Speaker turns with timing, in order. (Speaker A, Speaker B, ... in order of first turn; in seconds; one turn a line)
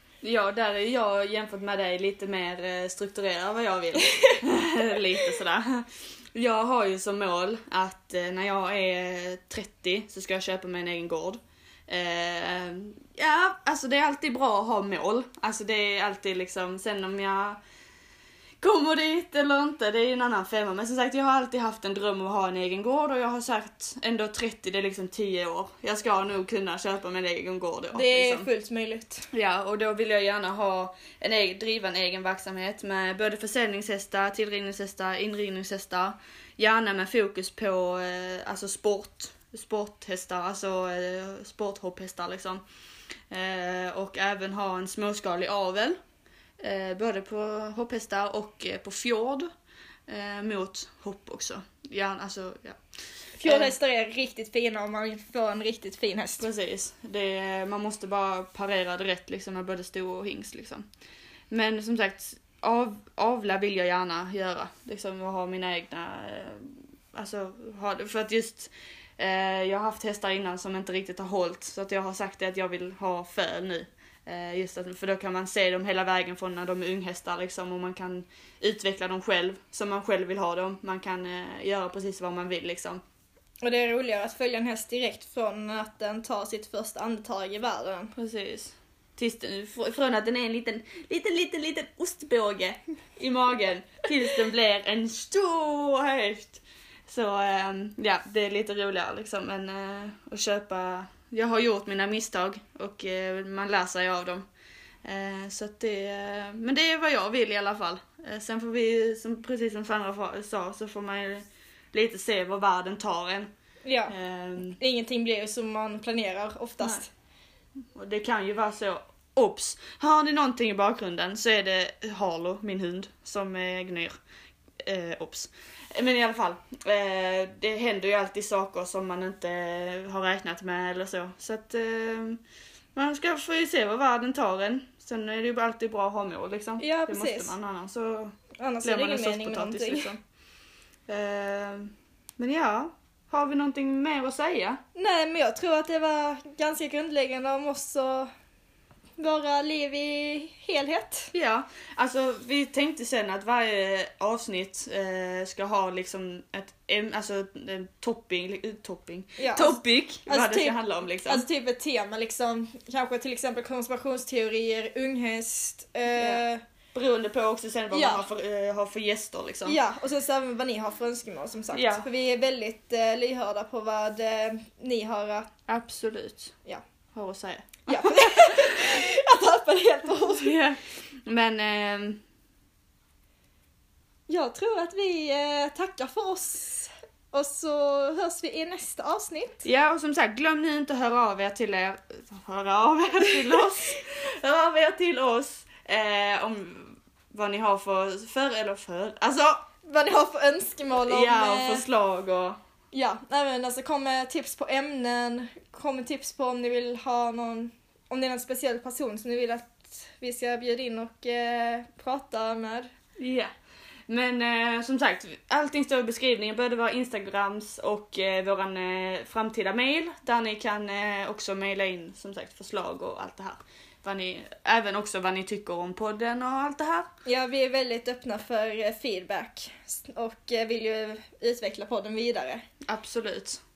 Speaker A: 0.2-17.6
Speaker A: 18.6-28.5
Speaker B: 27.9-29.3
Speaker A: 29.3-42.6
Speaker A: 43.3-46.0
Speaker A: 46.6-49.5
Speaker A: 50.1-52.8
Speaker B: 53.4-56.5
Speaker A: 53.5-53.7
Speaker A: 56.4-60.8
Speaker A: 61.5-83.0
Speaker B: 83.6-88.1
Speaker A: 88.2-104.5
Speaker A: 105.0-113.5
Speaker B: 113.8-114.1
Speaker A: 114.1-114.8
Speaker B: 114.8-117.1
Speaker A: 118.0-124.1
Speaker A: 124.8-132.4
Speaker A: 132.9-140.2
Speaker B: 136.8-137.5
Speaker B: 138.6-140.2
Speaker A: 141.1-144.8
Speaker B: 145.0-148.3
Speaker B: 149.2-151.3
Speaker A: 151.3-161.4
Speaker B: 159.4-166.6
Speaker A: 166.1-169.8
Speaker B: 167.9-168.2
Speaker B: 169.7-175.5
Speaker A: 171.7-172.1
Speaker A: 175.7-176.5
Speaker A: 177.1-179.0
Speaker B: 177.9-180.6
Speaker A: 180.2-182.2
Speaker B: 184.3-189.6
Speaker A: 189.6-199.6
Speaker B: 199.8-201.8
Speaker A: 201.1-202.6
Speaker B: 202.9-212.9
Speaker A: 213.2-213.5
Speaker A: 214.1-227.1
Speaker B: 227.2-232.6
Speaker A: 232.9-233.6